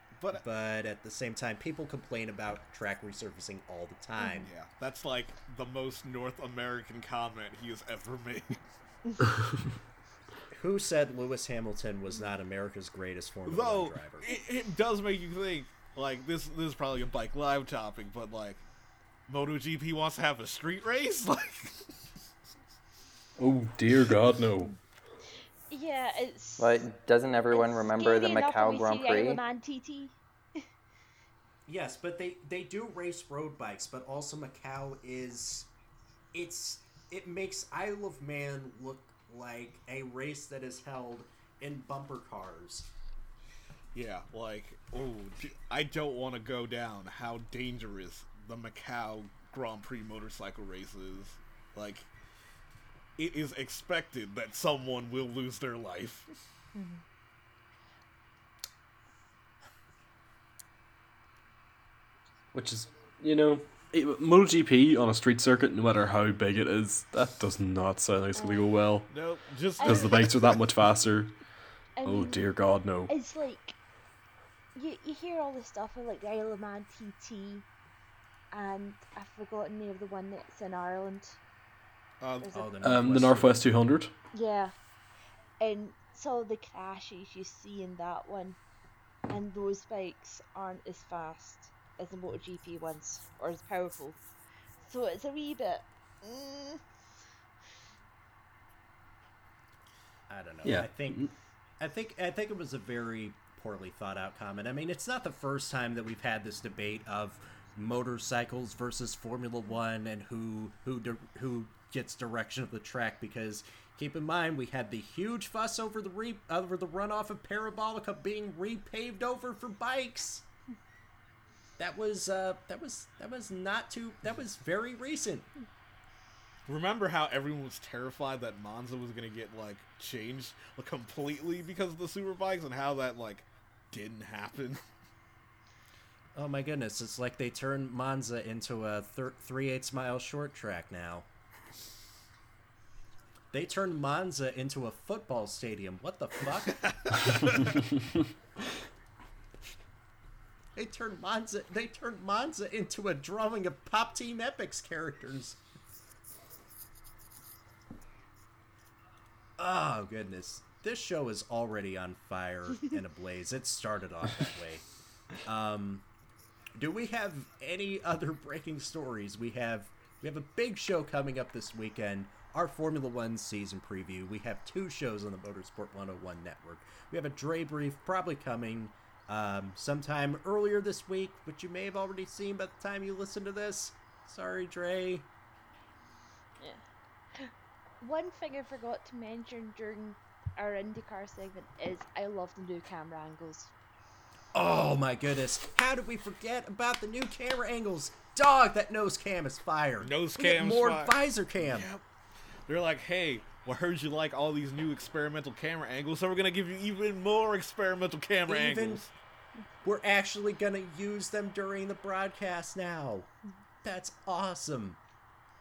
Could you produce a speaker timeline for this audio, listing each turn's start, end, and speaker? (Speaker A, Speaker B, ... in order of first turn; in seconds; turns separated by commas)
Speaker A: 0.2-0.4, Speaker B: 0.3-4.5, Speaker C: 4.2-4.5, Speaker A: 4.4-8.7, Speaker B: 10.5-14.3, Speaker A: 13.5-18.6, Speaker A: 19.3-21.9, Speaker D: 23.4-24.8, Speaker C: 25.7-26.8, Speaker E: 26.6-29.4, Speaker C: 27.5-30.1, Speaker B: 31.7-35.7, Speaker B: 36.3-42.9, Speaker A: 43.9-52.1, Speaker A: 53.2-56.3, Speaker C: 56.8-57.0, Speaker D: 62.5-69.1, Speaker C: 68.3-68.7, Speaker A: 69.1-70.6, Speaker C: 69.8-70.3, Speaker D: 69.8-71.4, Speaker C: 72.0-72.5, Speaker D: 72.0-73.1, Speaker C: 73.1-73.8, Speaker C: 74.8-77.7, Speaker C: 78.5-81.4, Speaker A: 82.2-82.5, Speaker C: 82.4-82.7, Speaker B: 82.5-83.8, Speaker D: 82.8-84.1, Speaker C: 84.3-84.7, Speaker C: 85.6-88.6, Speaker C: 89.3-94.2, Speaker C: 94.8-96.8, Speaker B: 100.3-120.5, Speaker D: 100.6-101.3, Speaker B: 121.8-125.5, Speaker A: 126.7-134.8, Speaker B: 136.3-141.3, Speaker B: 143.5-147.2, Speaker A: 146.8-147.8, Speaker B: 150.8-155.6, Speaker B: 159.6-164.9, Speaker B: 165.4-166.1, Speaker B: 166.8-185.3, Speaker C: 187.3-193.7, Speaker B: 194.5-201.9, Speaker A: 200.0-202.0, Speaker A: 202.7-209.1, Speaker B: 208.5-209.1, Speaker B: 209.8-213.3, Speaker B: 213.8-215.0